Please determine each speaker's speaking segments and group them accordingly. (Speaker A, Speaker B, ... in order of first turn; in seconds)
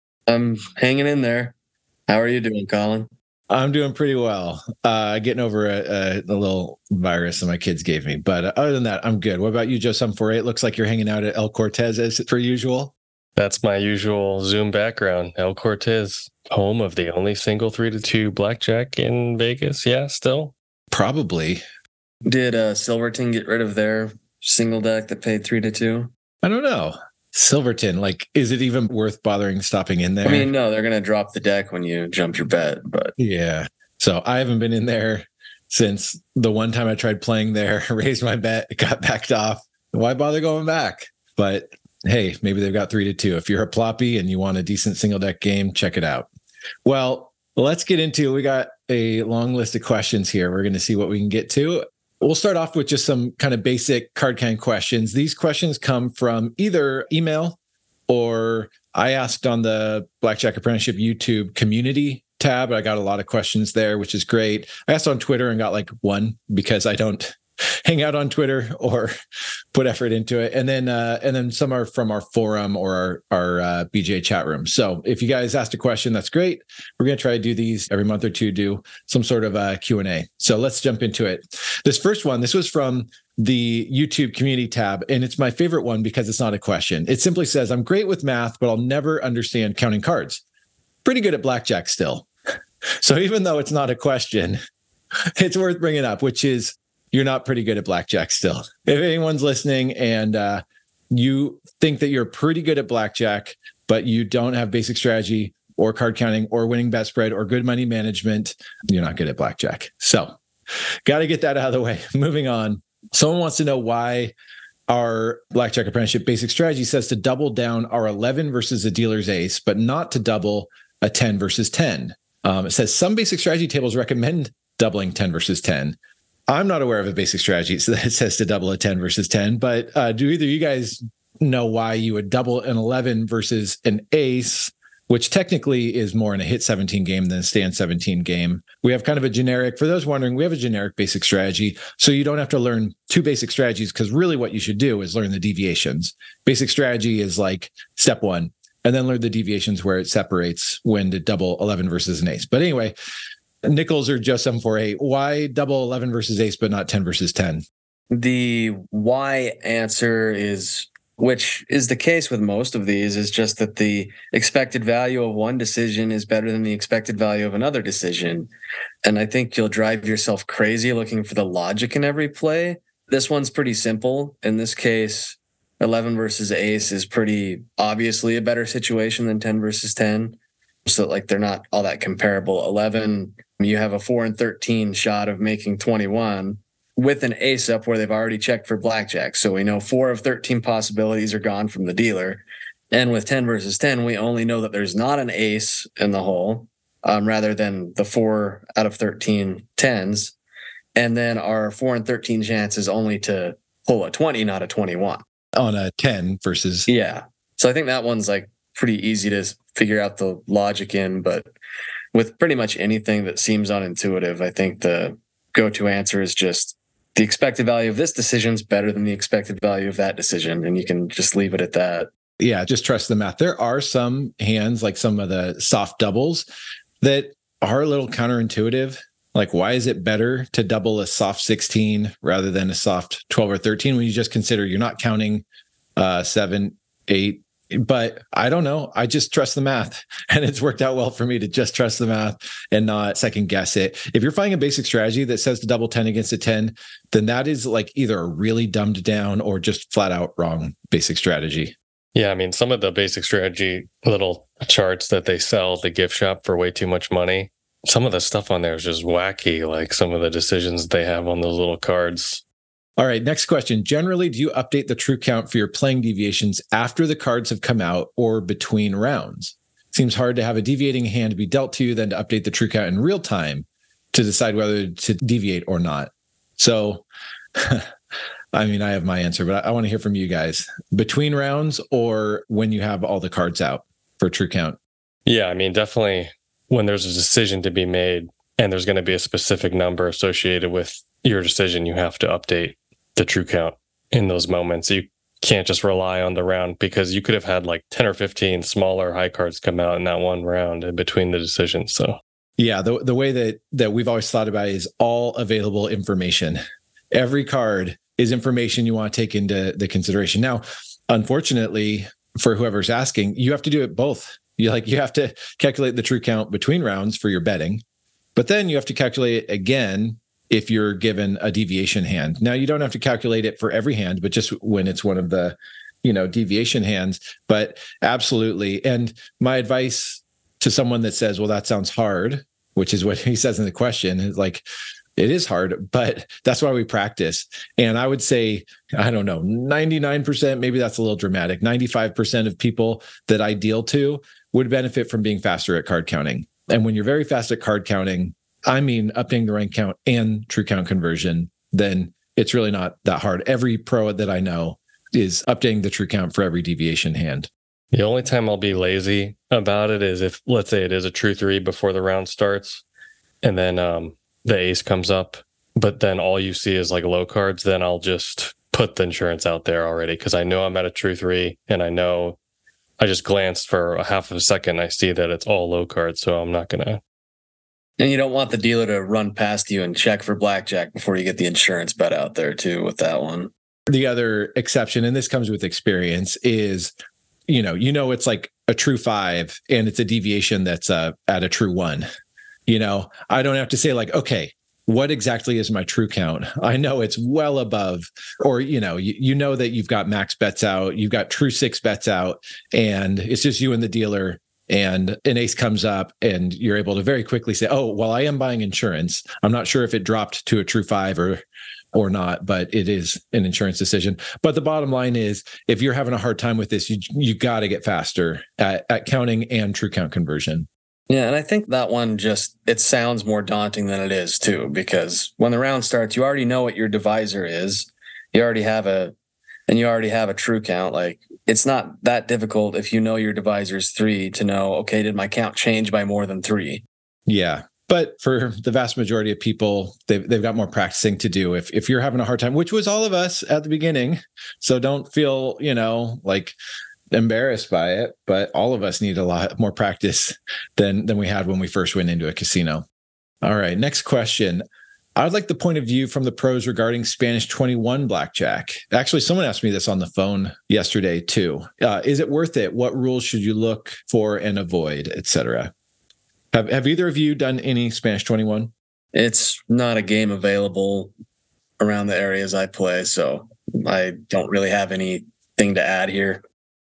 Speaker A: 0.3-1.6, 2.1-3.1, 22.2-26.1, 30.2-33.1, 158.1-168.5, 169.1-200.3, 201.0-205.2, 206.9-211.5, 212.1-222.1, 378.0-383.5, 421.1-429.1, 429.7-436.9, 469.1-471.1, 471.8-476.4
Speaker B: 3.5-12.9, 20.9-21.6, 26.4-30.5, 33.2-46.3, 46.9-69.1, 69.7-90.4, 91.0-92.3, 93.0-94.6, 95.4-110.4, 111.0-114.3, 114.9-126.0, 126.5-152.9, 153.7-157.7, 205.6-206.9, 222.4-226.5, 227.0-235.4, 236.0-251.8, 263.0-277.0, 277.6-277.9, 278.5-284.8, 302.6-306.6, 307.1-317.8, 318.4-334.6, 335.2-357.5, 383.9-386.9, 387.5-392.1, 392.7-411.4, 411.9-420.7, 437.3-446.6, 447.1-452.9, 453.4-454.6, 455.2-465.7, 466.5-468.7
Speaker C: 13.4-20.5, 252.2-262.4, 285.3-302.2, 357.9-362.8, 363.4-372.4, 373.0-377.0